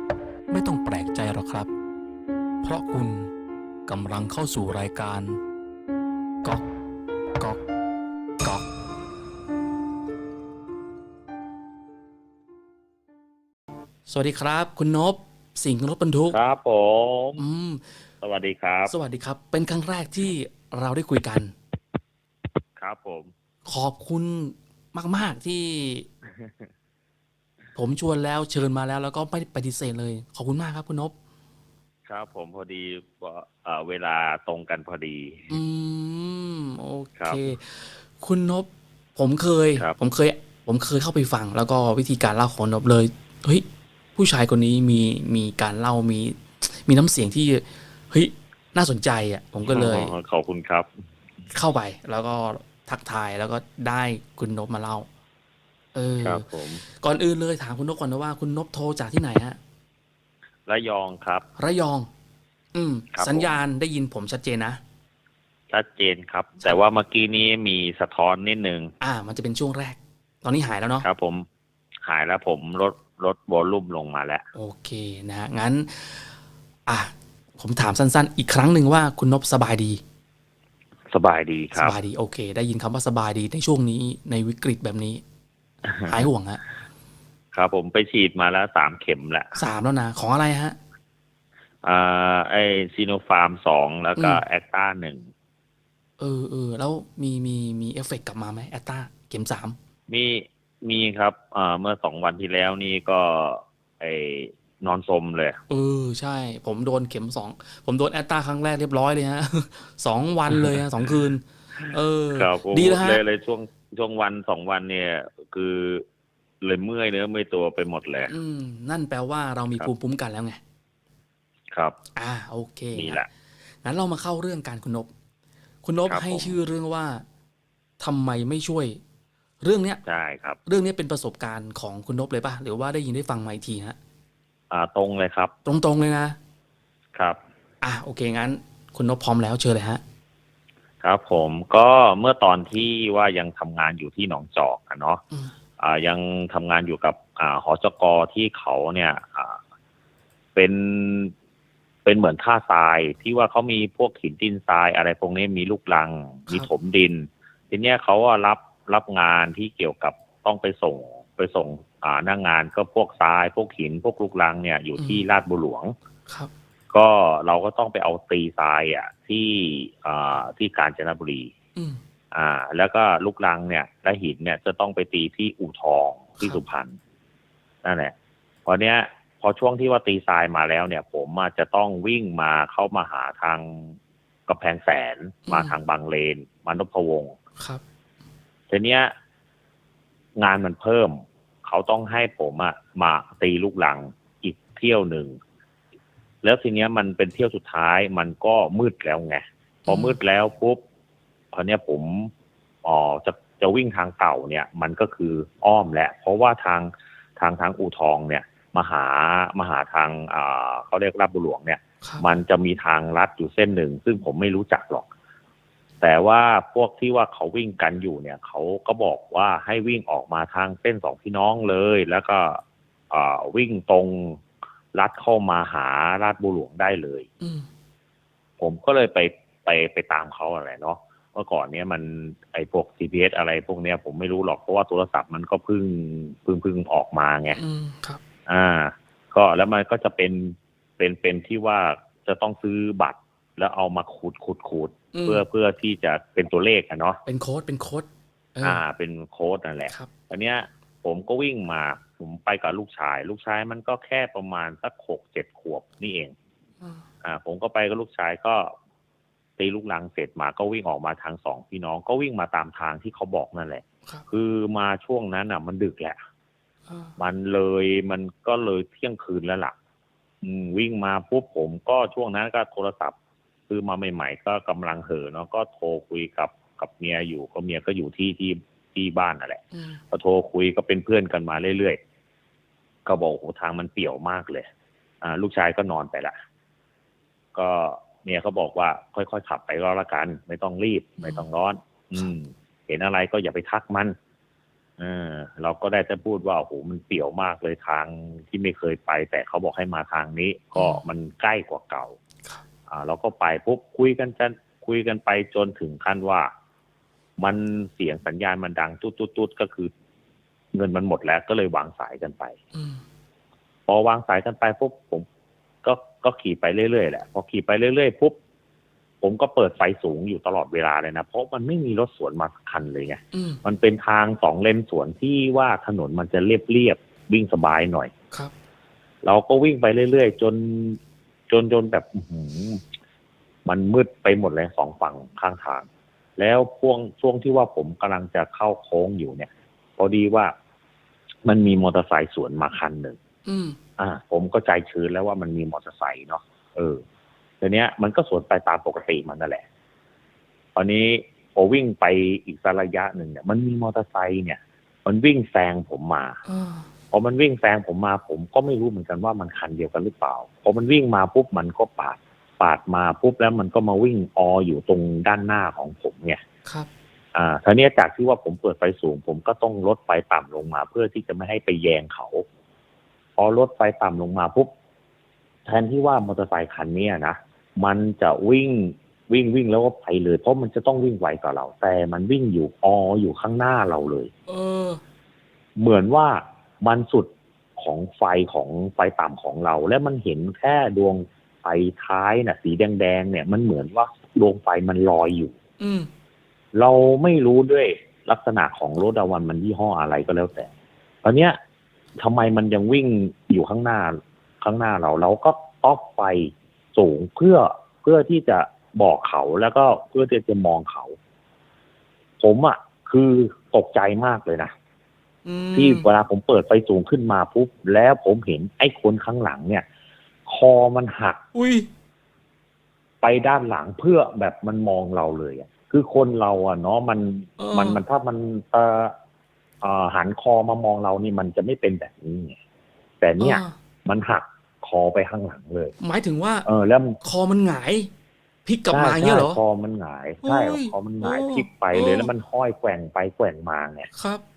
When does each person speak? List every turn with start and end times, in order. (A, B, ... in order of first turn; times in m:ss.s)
0:00.5-0:01.7 A
0:02.6-0:03.3 A
0:03.9-0:05.4 A
0:14.1-0:16.4 A
0:16.3-0:17.4 B
0:17.4-0:17.8 A
0:18.2-0:18.9 B
0:18.9-0:21.5 A
0:22.8-0:23.3 B
0:23.6-0:26.1 A
0:26.3-0:26.7 B
0:27.8-0:31.1 A
0:32.1-0:35.6 B
0:35.5-0:43.6 A
0:37.2-0:37.5 B
0:44.2-0:50.1 A
0:49.7-0:50.9 B
0:51.5-0:55.1 A
0:55.9-0:59.6 A
0:56.2-0:56.8 B
1:00.7-1:01.5 B
1:01.6-1:02.1 A
1:02.7-1:04.8 A
1:03.1-1:03.5 B
1:05.7-1:08.9 B
1:09.0-1:11.1 A
1:11.0-1:11.5 B
1:12.1-1:14.5 B
1:14.6-1:16.3 A
1:16.9-1:20.0 A
1:21.1-1:22.0 B
1:21.8-1:25.2 A
1:25.8-1:26.2 B
1:26.1-1:26.6 A
1:27.5-1:29.6 B
1:29.6-1:30.8 A
1:31.8-1:35.3 B
1:34.2-1:34.4 A
1:36.2-1:39.8 A
1:40.1-1:45.6 B
1:45.7-1:53.2 A
1:50.5-1:50.8 B
1:51.8-1:56.0 B
1:56.6-1:58.3 B
1:58.3-2:00.6 A
2:02.2-2:03.2 A
2:02.9-2:03.3 B
2:03.8-2:05.1 A
2:05.8-2:07.2 A
2:06.1-2:06.6 B
2:08.0-2:09.0 A
2:09.6-2:10.0 A
2:10.1-2:10.6 B
2:10.7-2:14.0 A
2:14.7-2:15.5 B
2:15.6-2:16.4 A
2:17.8-2:20.0 A
2:21.0-2:25.2 B
2:25.8-2:29.6 B
2:30.6-2:31.3 B
2:32.0-2:45.9 B
2:45.0-2:45.2 A
2:46.9-2:51.5 B
2:52.3-2:57.0 B
2:57.8-2:58.1 B
2:58.7-3:07.4 B
3:05.5-3:05.8 A
3:08.7-3:09.1 B
3:10.4-3:15.4 B
3:16.4-3:20.8 B
3:19.8-3:20.2 A
3:21.5-3:22.3 B
3:22.8-3:35.1 B
3:36.0-3:44.4 B
3:44.9-3:47.3 B
3:47.4-3:47.7 A
3:48.6-3:57.6 B
3:57.6-3:58.2 A
3:58.5-4:07.2 B
4:05.1-4:05.4 A
4:07.3-4:08.8 A
4:08.6-4:16.4 B
4:17.2-4:18.7 B
4:19.6-4:26.2 B
4:26.9-4:27.1 A
4:27.2-4:29.8 B
4:30.4-4:33.2 B
4:33.7-4:42.0 B
4:39.7-4:40.0 A
4:43.1-4:44.7 B
4:45.2-4:46.4 B
4:47.6-4:54.2 B
4:55.0-5:02.2 B
5:00.8-5:01.0 A
5:02.9-5:06.5 B
5:07.4-5:09.9 B
5:10.7-5:12.6 B
5:12.7-5:13.0 A
5:13.9-5:15.3 B
5:15.8-5:18.4 B
5:19.2-5:28.1 B
5:23.3-5:23.6 A
5:29.2-5:32.8 B
5:33.7-5:35.9 B
5:36.4-5:40.5 B
5:41.5-5:43.2 B
5:43.5-5:43.8 A
5:44.0-5:47.0 B
5:47.6-5:49.6 B
5:50.8-5:56.4 B
5:56.4-5:56.9 A
5:57.1-6:06.4 B
6:07.3-6:12.4 B
6:13.4-6:14.7 B
6:15.7-6:24.3 B
6:24.5-6:25.0 A
6:25.8-6:35.6 B
6:35.8-6:36.1 A
6:36.8-6:40.7 B
6:41.2-6:41.6 B
6:42.2-6:51.2 B
6:52.4-6:54.7 B
6:55.4-6:56.1 A
6:55.8-6:59.8 B
7:00.5-7:01.4 B
7:01.5-7:01.9 A
7:03.2-7:09.2 B
7:07.6-7:08.0 A
7:09.8-7:12.6 B
7:13.2-7:15.9 B
7:13.4-7:13.8 A
7:16.0-7:16.7 A
7:16.7-7:17.2 B
7:17.2-7:18.1 A
7:18.7-7:19.6 A
7:18.9-7:24.1 B
7:20.4-7:22.3 A
7:24.1-7:24.4 A